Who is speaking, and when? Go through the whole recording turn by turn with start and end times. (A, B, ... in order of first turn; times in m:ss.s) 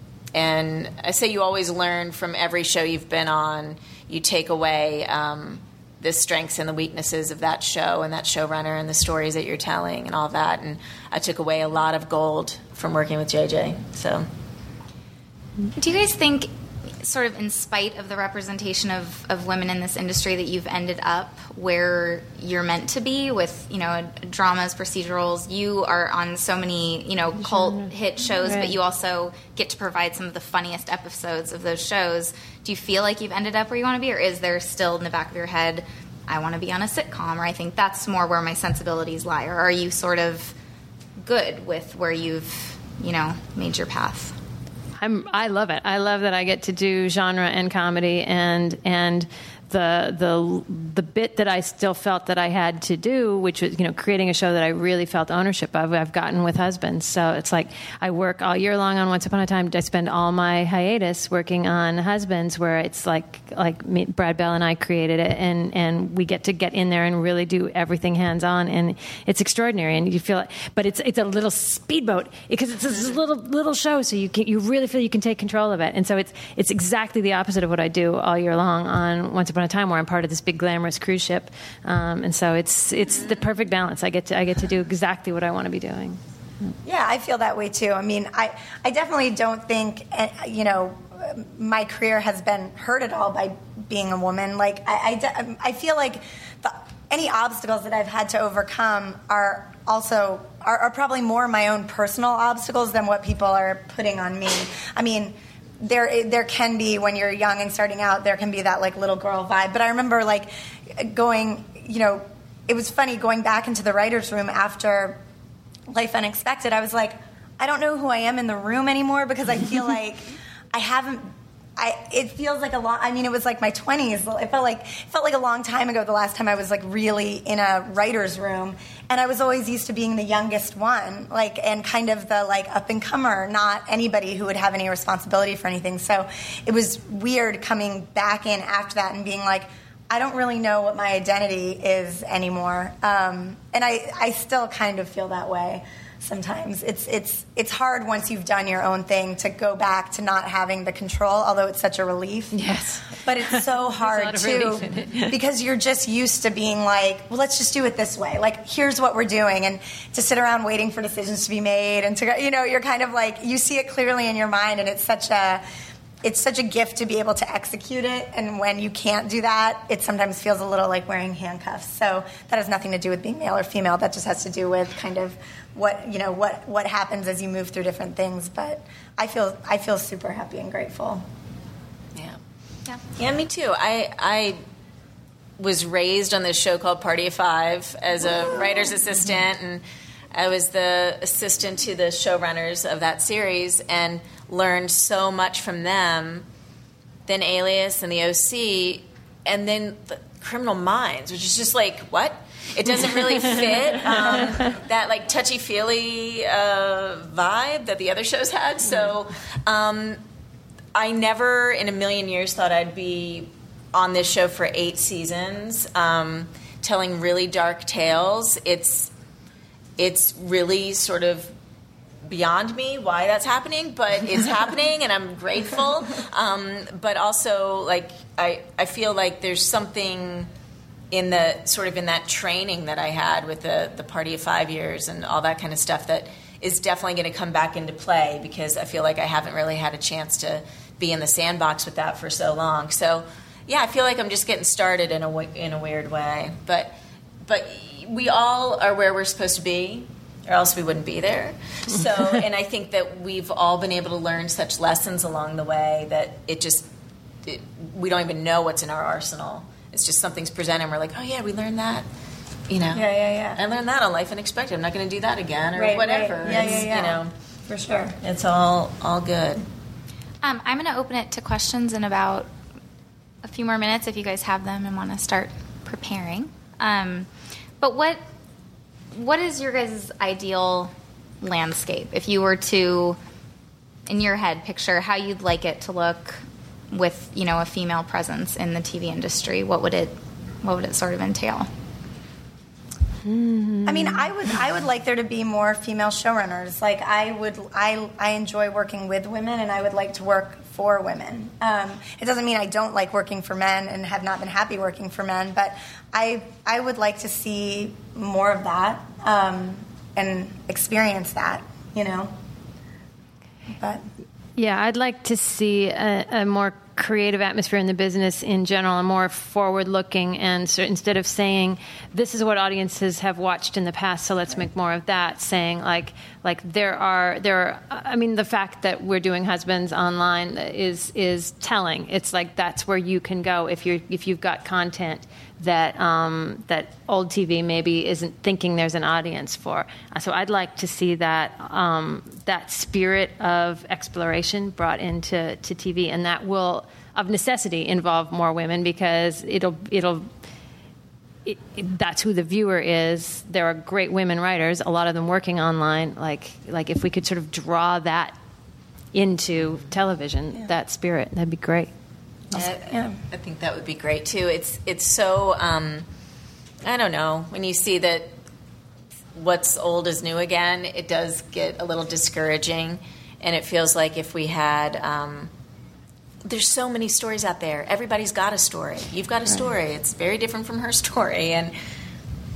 0:00.3-0:14.3 A
0:15.7-0:40.6 B
0:27.4-0:27.9 C
0:28.4-0:28.7 C
0:41.2-0:44.4 B
0:45.0-1:26.2 C
1:26.8-1:55.2 D
1:55.9-2:32.6 D
2:32.5-2:35.3 C
2:33.2-2:45.6 D
2:46.2-3:01.2 D
3:03.2-3:04.6 A
3:05.6-3:16.5 A
3:17.3-3:30.2 A
3:31.0-3:39.1 A
3:40.0-3:41.5 A
3:42.3-3:50.5 A
3:51.1-4:06.9 A
4:07.4-4:16.9 A
4:17.4-4:22.1 A
4:22.7-4:27.3 A
4:22.9-4:23.6 D
4:25.8-4:28.2 D
4:28.2-4:29.6 A
4:30.4-4:32.5 B
4:33.4-4:37.3 B
4:37.8-4:38.2 B
4:39.1-4:43.2 B
4:44.1-4:51.7 B
4:53.2-4:54.3 C
4:53.9-5:12.3 D
5:13.8-5:14.0 D
5:14.6-5:50.3 C
5:51.5-5:58.4 C
5:59.1-6:01.9 C
6:02.5-6:06.1 A
6:02.5-6:03.2 D
6:06.8-6:08.3 A
6:09.4-6:15.5 A
6:16.4-6:21.7 A